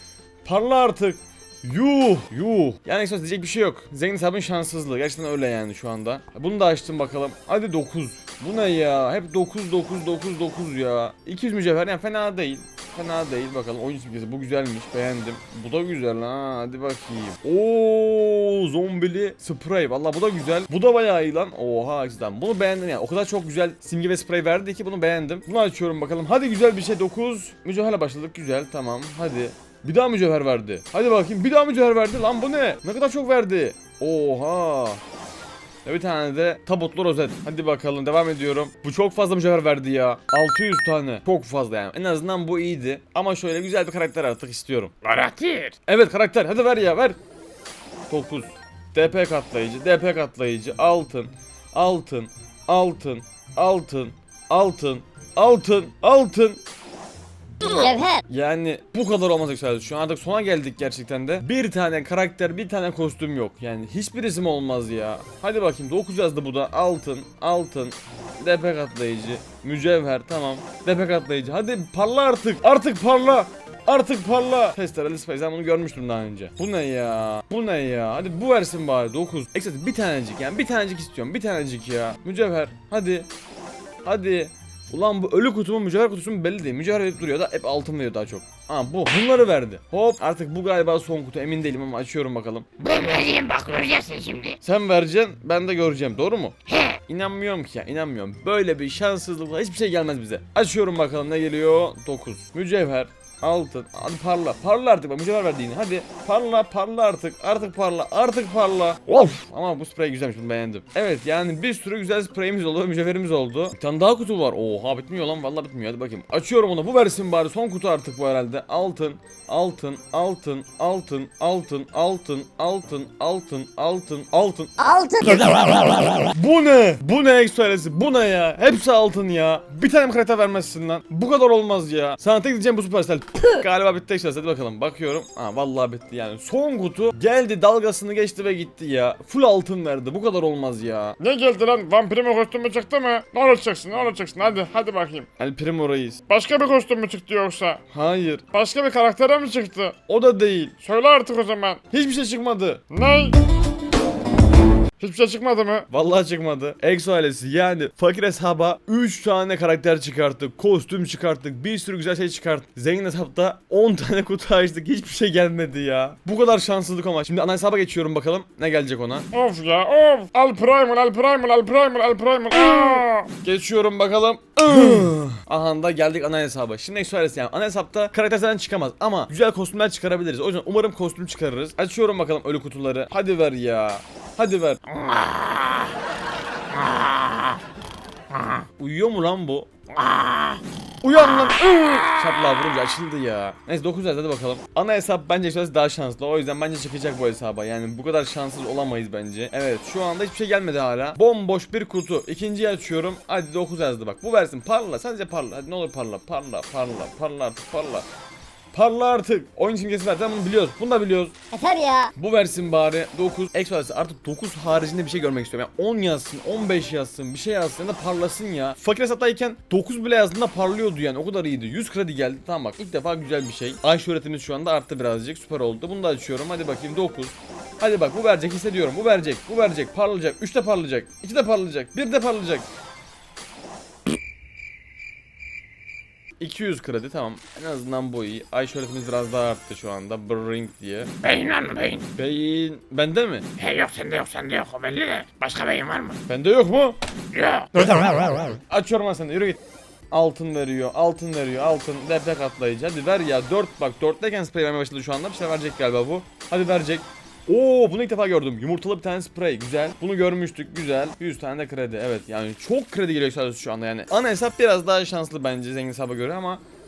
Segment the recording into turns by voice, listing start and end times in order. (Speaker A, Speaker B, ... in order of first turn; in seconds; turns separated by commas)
Speaker A: 0.4-35.0, Speaker A: 35.8-45.0, Speaker B: 45.0-45.7, Speaker A: 45.8-47.2, Speaker A: 48.1-56.6, Speaker C: 57.7-58.2, Speaker A: 58.3-83.3, Speaker A: 84.0-93.2, Speaker D: 93.2-94.5, Speaker A: 94.6-124.8, Speaker C: 124.8-125.9, Speaker A: 125.8-141.2, Speaker B: 141.2-145.3, Speaker A: 145.4-146.2, Speaker B: 146.3-147.8, Speaker A: 147.9-148.5, Speaker B: 148.5-150.0, Speaker A: 150.1-150.8, Speaker B: 150.8-151.8, Speaker A: 151.9-152.8, Speaker B: 152.9-153.4, Speaker B: 155.0-155.9, Speaker A: 155.9-169.3, Speaker B: 169.3-173.3, Speaker A: 172.7-185.0, Speaker D: 185.1-185.8, Speaker D: 186.9-187.5, Speaker A: 188.5-189.7, Speaker D: 190.1-190.5, Speaker A: 191.0-208.1, Speaker A: 208.7-211.3, Speaker C: 211.5-212.1, Speaker A: 212.2-232.7, Speaker A: 236.4-241.1, Speaker D: 241.3-242.0, Speaker A: 242.1-243.6, Speaker B: 243.6-246.1, Speaker D: 243.7-246.0, Speaker A: 246.2-247.0, Speaker D: 247.3-247.7, Speaker A: 247.8-249.6, Speaker A: 250.1-266.6